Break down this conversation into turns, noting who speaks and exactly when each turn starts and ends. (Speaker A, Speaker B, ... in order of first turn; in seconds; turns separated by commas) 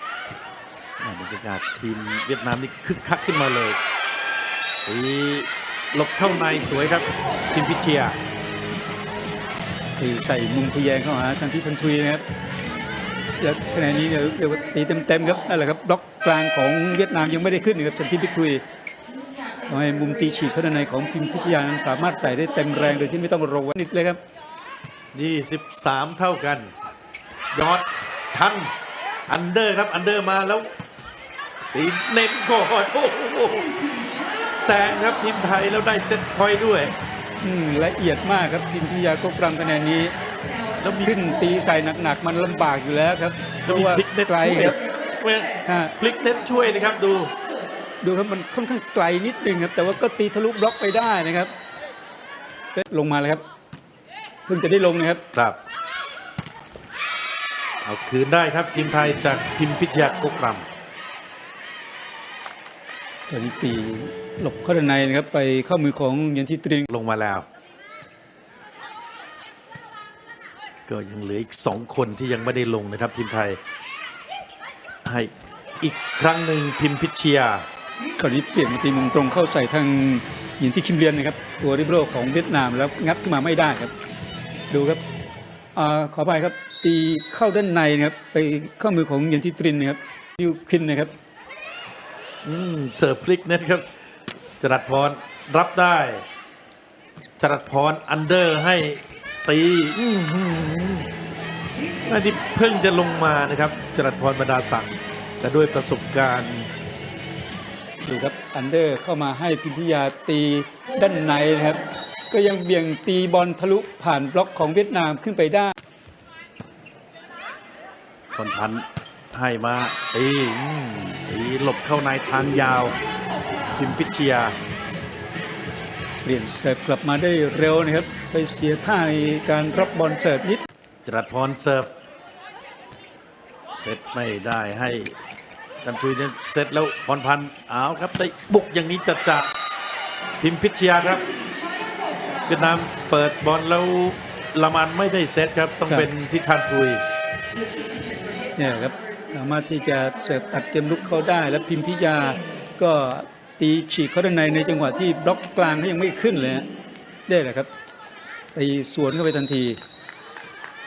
Speaker A: 1.0-3.8, Speaker A: 4.8-8.2, Speaker B: 10.0-12.2, Speaker B: 13.4-18.6, Speaker B: 19.6-24.2, Speaker A: 25.1-26.7, Speaker A: 27.5-28.7, Speaker A: 29.3-30.7, Speaker A: 31.7-33.7, Speaker A: 34.5-37.0, Speaker B: 37.4-40.1, Speaker A: 40.8-41.2, Speaker B: 41.0-44.8, Speaker A: 43.6-47.3, Speaker B: 45.6-46.0, Speaker B: 48.0-51.5, Speaker B: 52.7-53.4, Speaker B: 54.5-55.2, Speaker A: 55.3-55.6, Speaker A: 57.8-60.7, Speaker B: 63.3-66.9, Speaker A: 66.9-67.5, Speaker A: 70.9-73.6, Speaker A: 75.0-77.7, Speaker B: 78.2-83.9, Speaker B: 84.7-85.0, Speaker B: 85.7-91.1, Speaker A: 92.4-93.9, Speaker A: 94.6-96.2, Speaker A: 97.4-101.1, Speaker A: 102.1-106.7, Speaker B: 108.0-115.7, Speaker A: 118.3-123.0, Speaker A: 123.7-124.5, Speaker B: 126.2-130.6, Speaker A: 131.0-131.9, Speaker A: 133.8-135.2, Speaker A: 135.8-139.5, Speaker A: 140.4-141.3, Speaker A: 142.5-147.0, Speaker B: 148.6-156.7, Speaker B: 157.3-157.7, Speaker B: 158.5-159.8